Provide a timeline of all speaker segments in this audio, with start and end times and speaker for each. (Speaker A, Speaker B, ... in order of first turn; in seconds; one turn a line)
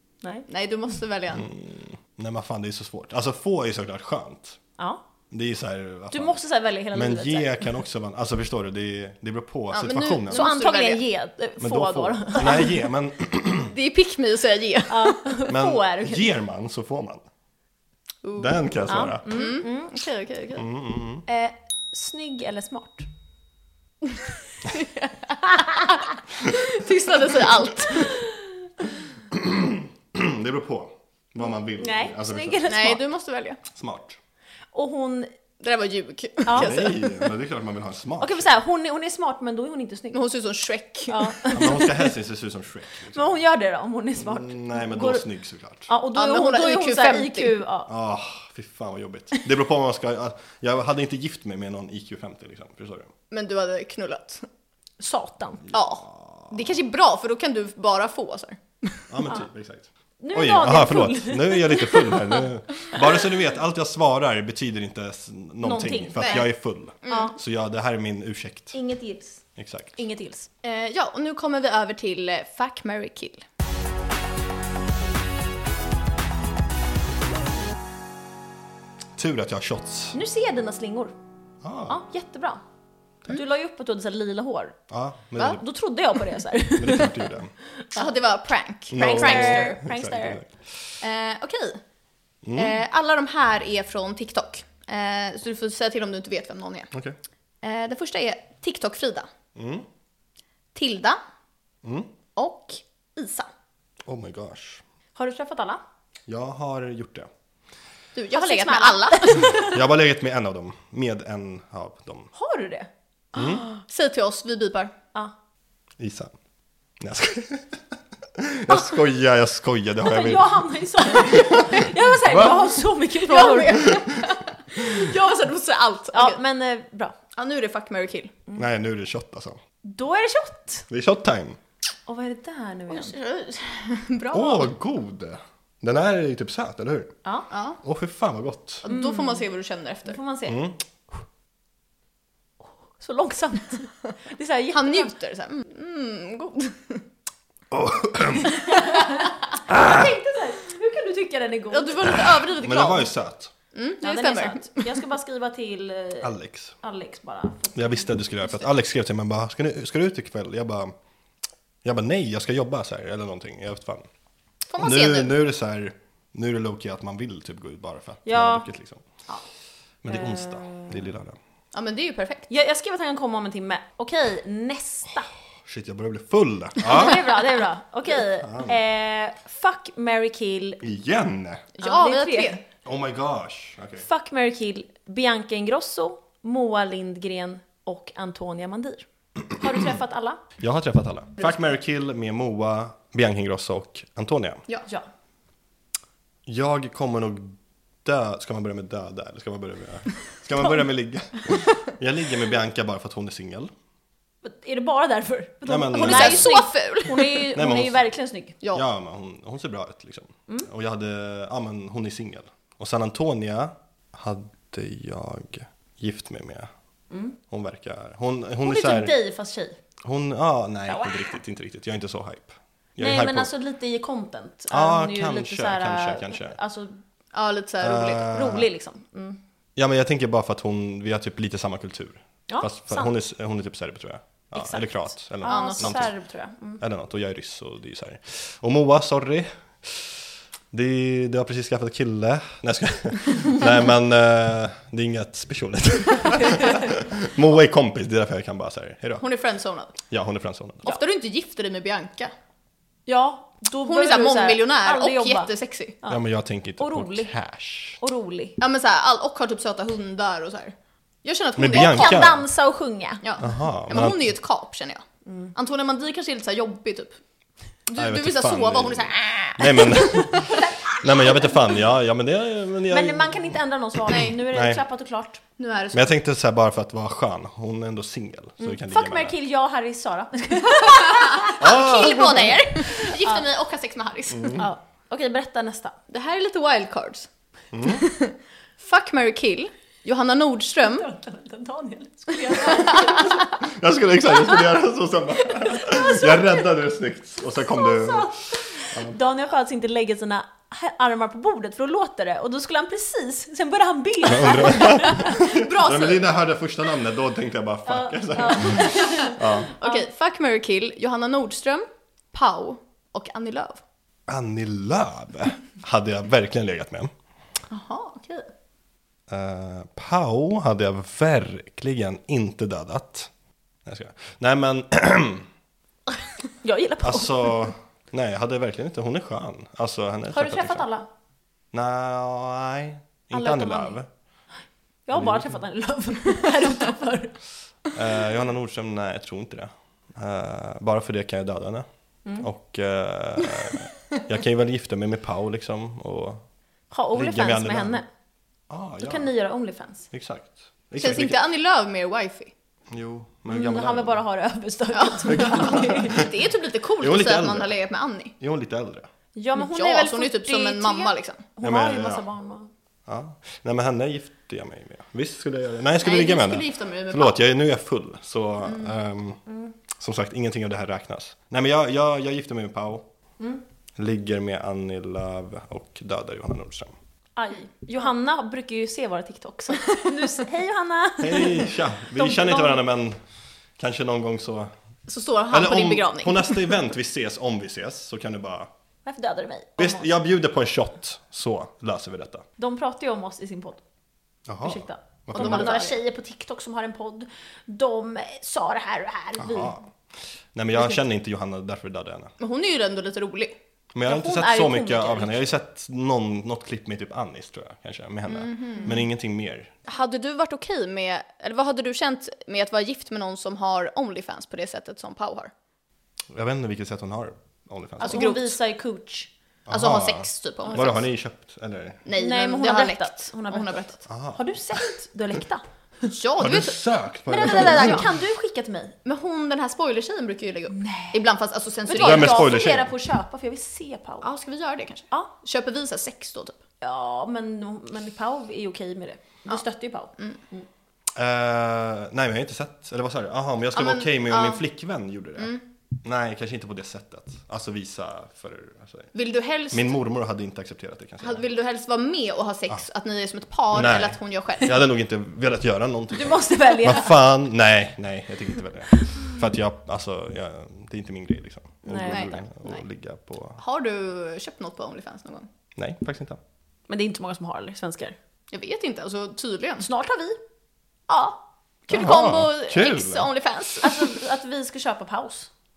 Speaker A: 0.5-1.5
Speaker B: 1.3-4.6
Speaker B: 5.3-6.4
Speaker C: 6.1-7.7
Speaker B: 6.9-10.4
Speaker A: 9.7-11.0
Speaker C: 10.3-12.7
Speaker B: 11.6-13.7
Speaker A: 13.7-15.2
Speaker C: 14.9-16.3
Speaker B: 15.5-17.2
Speaker A: 18.2-18.5
Speaker B: 18.4-19.4
Speaker C: 18.9-20.6
Speaker A: 19.3-20.6
Speaker B: 20.6-21.2
Speaker C: 21.3-23.1
Speaker A: 24.7-28.2
Speaker C: 25.6-26.0
Speaker C: 27.9-28.4
Speaker B: 29.3-32.6
Speaker C: 31.8-33.1
Speaker A: 32.7-33.6
Speaker B: 33.7-34.2
Speaker C: 34.7-35.3
Speaker A: 35.6-37.3
Speaker C: 36.5-36.8
Speaker B: 36.5-38.5
Speaker C: 38.2-40.2
Speaker A: 40.1-41.8
Speaker C: 41.1-42.0
Speaker B: 41.5-43.4
Speaker C: 43.1-45.3
Speaker B: 44.2-45.9
Speaker C: 45.9-47.9
Speaker A: 46.1-47.5
Speaker B: 47.9-53.1
Speaker A: 53.3-54.5
Speaker C: 55.0-55.6
Speaker B: 55.7-56.5
Speaker A: 55.7-59.0
Speaker B: 59.1-68.8
Speaker C: 60.2-62.2
Speaker C: 65.6-66.5
Speaker A: 66.2-66.5
Speaker A: 67.0-67.3
Speaker C: 67.1-67.4
Speaker C: 68.7-70.5
Speaker B: 69.6-70.0
Speaker A: 70.6-73.5
Speaker B: 79.2-80.2
Speaker C: 80.1-81.1
Speaker B: 81.6-82.0
Speaker C: 81.9-82.6
Speaker C: 83.3-84.8
Speaker B: 84.9-85.6
Speaker C: 85.4-87.3
Speaker B: 86.8-87.5
Speaker C: 87.8-88.1
Speaker A: 88.0-89.8
Speaker B: 88.9-90.8
Speaker C: 89.0-90.4
Speaker A: 91.0-91.8
Speaker B: 92.4-92.8
Speaker A: 92.5-96.9
Speaker A: 97.6-99.3
Speaker B: 99.6-99.9
Speaker A: 100.8-101.2
Speaker B: 101.8-102.1
Speaker A: 102.3-103.5
Speaker B: 104.1-104.8
Speaker C: 105.2-105.8
Speaker B: 106.3-107.3
Speaker A: 108.2-109.8
Speaker C: 108.3-109.8
Speaker B: 109.6-112.3
Speaker C: 112.3-112.9
Speaker B: 113.3-113.7
Speaker A: 113.4-114.9
Speaker B: 116.0-116.3
Speaker B: 117.0-117.8
Speaker B: 118.4-120.6
Speaker C: 120.0-124.0
Speaker B: 121.3-121.7
Speaker B: 122.3-122.7
Speaker A: 123.2-126.4
Speaker C: 126.1-127.2
Speaker A: 127.4-128.3
Speaker B: 128.6-129.6
Speaker C: 129.8-130.9
Speaker B: 130.9-131.6
Speaker C: 132.1-133.1
Speaker A: 132.9-134.7
Speaker B: 134.3-137.1
Speaker A: 137.5-137.8
Speaker B: 137.8-138.8
Speaker A: 138.8-140.2
Speaker C: 138.9-139.5
Speaker C: 140.1-140.6
Speaker B: 140.5-140.8
Speaker C: 143.0-145.1
Speaker A: 144.7-147.0
Speaker B: 147.7-148.7
Speaker C: 148.6-152.2
Speaker A: 148.7-149.1
Speaker B: 149.7-150.1
Speaker A: 151.7-153.1
Speaker B: 152.5-153.5
Speaker A: 153.7-155.0
Speaker C: 154.0-158.7
Speaker B: 156.2-156.7
Speaker B: 157.8-160.9
Speaker B: 161.8-164.1
Speaker A: 164.7-165.3
Speaker B: 164.8-169.1
Speaker C: 168.3-168.7
Speaker B: 170.0-171.4
Speaker C: 170.1-171.0
Speaker A: 171.7-172.5
Speaker C: 172.5-175.3
Speaker B: 175.7-177.3
Speaker C: 176.8-180.8
Speaker B: 178.4-178.8
Speaker B: 180.8-181.7
Speaker A: 181.8-182.6
Speaker C: 181.8-182.6
Speaker B: 182.8-184.1
Speaker C: 184.0-190.4
Speaker B: 190.6-194.6
Speaker B: 196.5-203.7
Speaker C: 204.4-208.6
Speaker B: 205.7-206.6
Speaker A: 205.9-207.5
Speaker B: 207.6-208.0
Speaker B: 208.7-216.7
Speaker C: 217.1-217.4
Speaker B: 217.5-219.1
Speaker C: 218.6-219.8
Speaker B: 220.0-223.5
Speaker C: 220.9-221.4
Speaker C: 223.0-227.0
Speaker B: 224.7-226.6
Speaker A: 227.3-228.3
Speaker B: 227.8-228.7
Speaker C: 228.3-229.4
Speaker B: 229.8-236.1
Speaker C: 232.5-233.1
Speaker C: 234.5-236.8
Speaker A: 235.5-236.0
Speaker B: 236.8-249.3
Speaker A: 249.2-250.0
Speaker B: 250.1-250.9
Speaker A: 250.8-252.3
Speaker C: 253.1-255.5
Speaker A: 253.8-256.0
Speaker B: 256.1-258.0
Speaker C: 256.8-257.3
Speaker C: 258.0-258.6
Speaker A: 258.6-262.3
Speaker B: 261.6-262.4
Speaker C: 261.7-263.3
Speaker A: 263.2-267.2
Speaker B: 263.4-264.3
Speaker C: 265.3-265.5
Speaker A: 267.9-270.6
Speaker B: 267.9-273.6
Speaker C: 272.9-275.4
Speaker A: 274.1-274.4
Speaker B: 274.1-274.8
Speaker A: 275.6-276.1
Speaker B: 275.9-279.4
Speaker C: 278.6-283.4
Speaker A: 280.9-284.7
Speaker B: 281.6-282.6
Speaker B: 284.3-284.7
Speaker C: 284.6-286.0
Speaker A: 286.1-287.3
Speaker B: 287.7-288.1
Speaker A: 287.8-291.1
Speaker C: 290.8-293.4
Speaker A: 292.5-293.4
Speaker B: 293.4-299.1
Speaker C: 295.7-296.6
Speaker C: 297.6-305.5
Speaker B: 304.3-309.7
Speaker A: 305.2-306.2
Speaker C: 307.9-310.1
Speaker A: 309.0-313.8
Speaker B: 314.3-317.1
Speaker A: 317.7-318.5
Speaker B: 319.3-323.3
Speaker B: 323.9-325.5
Speaker C: 326.6-327.7
Speaker B: 327.0-330.9
Speaker C: 330.3-331.1
Speaker B: 331.7-334.1
Speaker C: 333.3-334.0
Speaker C: 335.1-337.4
Speaker B: 335.1-335.6
Speaker B: 337.9-341.9
Speaker B: 342.4-346.4
Speaker C: 346.9-348.1
Speaker B: 347.1-348.0
Speaker B: 348.7-349.3
Speaker C: 349.0-350.1
Speaker B: 350.1-351.4
Speaker A: 351.0-352.5
Speaker B: 352.9-354.2
Speaker C: 353.5-356.2
Speaker A: 354.9-358.3
Speaker B: 355.3-356.3
Speaker B: 357.0-357.7
Speaker B: 358.4-359.1
Speaker C: 359.4-362.7
Speaker A: 359.6-361.5
Speaker B: 361.6-362.2
Speaker B: 363.1-369.4
Speaker A: 366.0-367.4
Speaker A: 368.6-368.9
Speaker B: 369.9-373.1
Speaker B: 374.0-376.9
Speaker C: 377.4-382.8
Speaker B: 381.2-383.2
Speaker B: 383.8-384.7
Speaker A: 385.1-386.7
Speaker B: 385.5-388.7
Speaker C: 389.1-390.1
Speaker B: 389.8-392.4
Speaker C: 392.6-393.8
Speaker B: 394.5-395.8
Speaker C: 394.6-399.7
Speaker A: 395.4-396.0
Speaker B: 399.4-399.9
Speaker B: 400.5-402.3
Speaker A: 402.4-403.6
Speaker B: 403.9-409.7
Speaker C: 404.1-405.5
Speaker A: 408.3-409.0
Speaker A: 409.9-415.5
Speaker B: 416.3-418.5
Speaker A: 418.0-418.5
Speaker C: 418.0-419.3
Speaker B: 419.7-422.0
Speaker A: 419.7-421.0
Speaker C: 420.7-421.0
Speaker A: 422.1-424.0
Speaker C: 422.2-425.6
Speaker B: 424.1-424.4
Speaker A: 426.1-426.8
Speaker B: 426.4-428.1
Speaker C: 427.3-428.9
Speaker A: 427.4-428.1
Speaker A: 429.1-432.5
Speaker C: 430.7-431.2
Speaker C: 431.9-434.3
Speaker B: 432.0-432.9
Speaker A: 434.2-436.6
Speaker C: 436.8-440.7
Speaker B: 441.2-449.1
Speaker A: 443.8-444.6
Speaker A: 445.4-445.6
Speaker A: 449.1-449.9
Speaker B: 449.7-451.4
Speaker A: 451.2-454.8
Speaker B: 453.7-463.6
Speaker C: 456.1-457.2
Speaker C: 461.9-462.4
Speaker A: 462.1-462.8
Speaker A: 463.6-465.5
Speaker B: 465.8-466.4
Speaker C: 466.9-468.2
Speaker A: 468.5-469.9
Speaker C: 469.8-470.4
Speaker A: 471.1-474.1
Speaker B: 471.9-473.3
Speaker C: 473.8-475.5